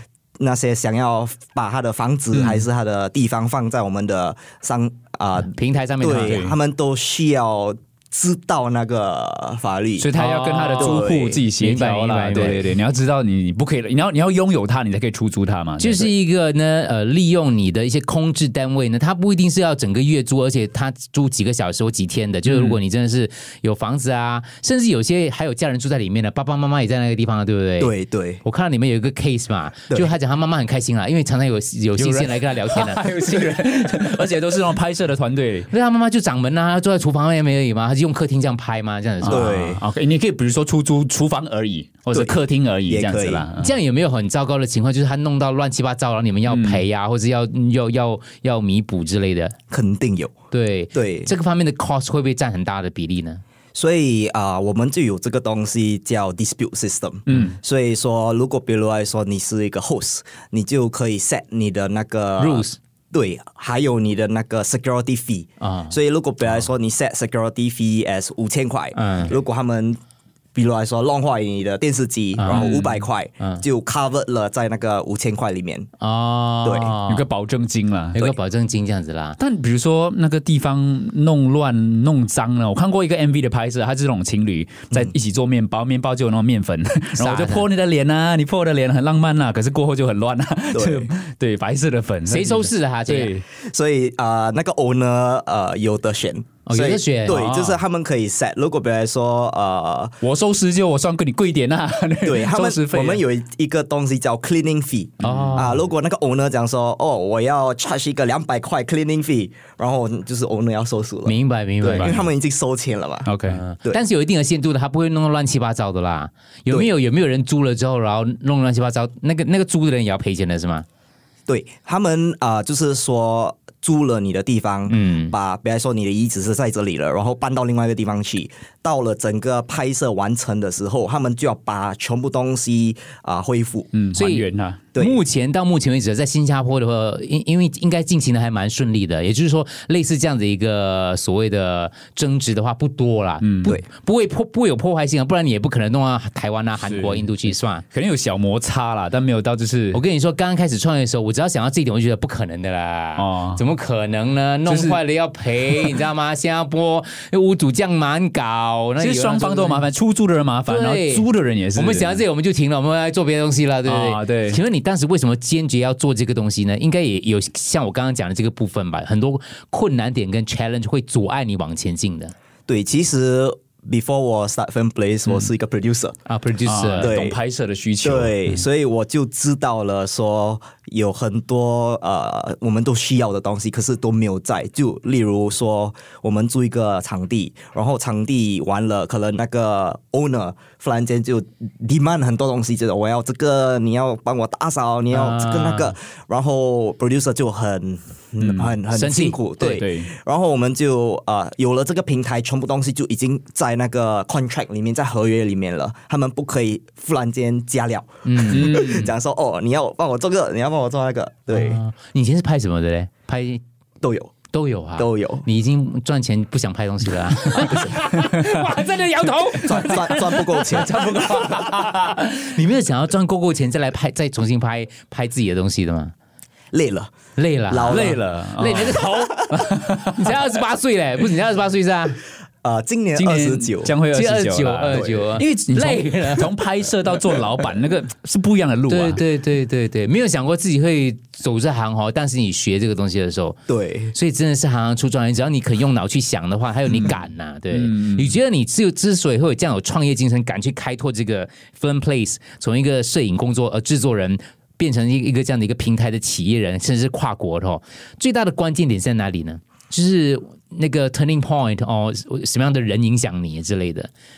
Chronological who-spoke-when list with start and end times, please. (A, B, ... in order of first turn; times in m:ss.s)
0:00.4-0:10.1 A
0:02.3-0:02.7 B
0:05.4-0:06.4 C
0:06.2-0:06.6 B
0:10.0-0:16.1 B
0:10.1-0:12.7 C
0:10.8-0:11.4 A
0:15.8-0:27.9 C
0:27.8-0:28.4 A
0:28.4-0:33.4 C
0:32.0-0:35.7 B
0:35.7-0:39.6 C
0:39.2-0:43.7 B
0:39.3-0:39.8 A
0:42.1-0:43.5 A
0:43.6-0:49.6 C
0:46.5-0:46.8 B
0:49.7-0:50.3 A
0:50.5-0:53.4 C
0:50.9-0:51.3 A
0:53.8-1:10.0 A
0:57.3-0:57.6 B
1:02.4-1:02.8 C
1:05.6-1:06.0 C
1:08.9-1:09.3 C
1:10.6-1:15.9 A
1:12.4-1:13.6 C
1:12.5-1:12.9 B
1:16.0-1:17.2 C
1:16.6-1:16.9 A
1:17.1-1:18.3 B
1:18.1-1:19.4 C
1:19.4-1:33.4 B
1:27.2-1:27.7 C
1:30.7-1:31.1 A
1:32.3-1:33.4 C
1:33.5-1:40.2 A
1:36.6-1:37.4 C
1:37.3-1:37.8 B
1:40.2-1:43.2 B
1:42.2-1:53.3 A
1:45.2-1:45.7 B
1:45.2-1:45.8 C
1:51.2-1:52.2 C
1:51.8-1:52.2 B
1:53.3-1:53.6 B
1:53.5-2:00.9 C
2:01.5-2:13.9 A
2:04.9-2:05.4 C
2:13.9-2:14.8 B
2:14.1-2:27.8 C
2:14.9-2:15.2 A
2:23.4-2:23.8 B
2:26.8-2:27.3 B
2:27.9-2:30.0 B
2:29.9-2:39.9 C
2:33.2-2:33.6 B
2:34.6-2:35.0 B
2:39.0-2:42.2 B
2:40.6-2:52.3 C
2:43.8-2:44.6 B
2:52.7-2:56.2 A
2:56.3-2:57.1 C
2:56.6-2:58.4 B
2:57.0-2:57.4 A
2:58.0-3:31.8 A
3:15.1-3:15.9 C
3:18.4-3:18.8 B
3:18.9-3:19.9 C
3:19.7-3:20.1 B
3:28.2-3:29.0 C
3:28.5-3:29.1 B
3:31.5-3:33.6 C
3:34.0-3:34.3 A
3:34.5-3:46.1 C
3:35.0-3:35.5 A
3:39.6-3:41.2 A
3:41.2-3:42.2 B
3:46.7-3:47.1 A
3:47.4-3:52.2 C
3:47.7-3:48.2 A
3:47.9-3:50.3 B
3:49.0-3:49.4 A
3:52.6-3:53.9 A
3:53.2-3:59.2 B
3:54.1-3:56.6 C
3:54.9-3:55.3 A
3:58.9-4:03.6 C
4:03.7-4:04.2 A
4:04.1-4:24.1 C
4:07.7-4:08.4 B